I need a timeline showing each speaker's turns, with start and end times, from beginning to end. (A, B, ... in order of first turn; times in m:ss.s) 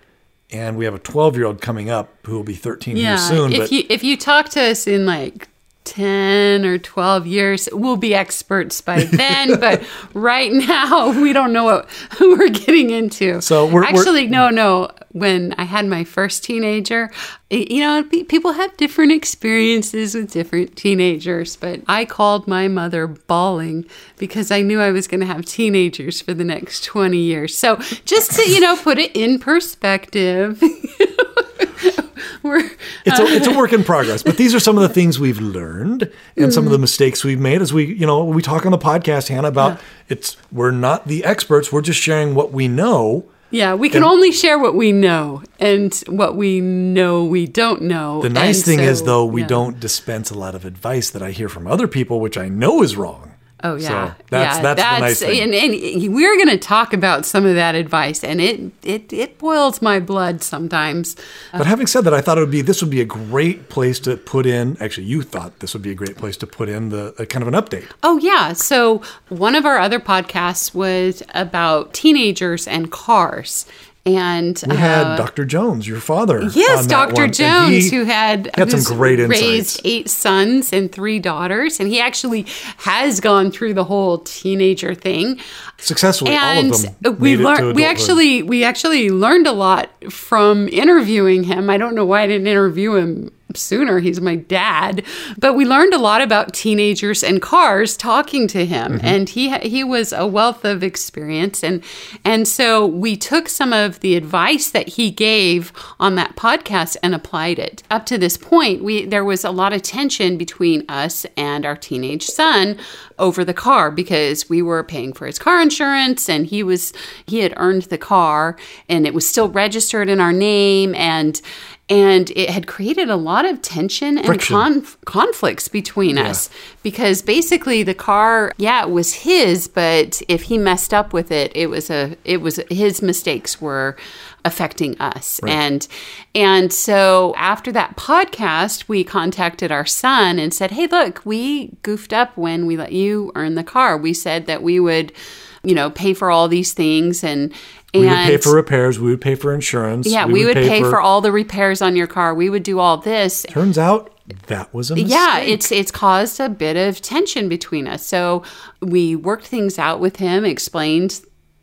0:00.5-0:03.7 A
0:02.9-0:34.3 B
0:09.0-0:09.8 A
0:13.4-0:14.4 A
0:33.0-0:43.3 A
0:36.4-0:36.8 B
0:43.5-0:49.6 B
0:48.2-0:55.5 A
0:53.6-1:01.6 B
1:01.6-1:07.9 A
1:08.0-1:15.3 B
1:14.6-1:18.0 A
1:16.4-1:25.4 B
1:18.5-1:19.8 A
1:25.8-1:28.2 A
1:26.2-2:25.1 B
1:38.9-1:39.2 A
2:04.2-2:04.6 A
2:06.1-2:06.4 A
2:25.6-2:28.5 B
2:27.9-2:31.0 A
2:30.0-2:33.5 B
2:33.5-2:35.7 A
2:34.9-2:41.2 B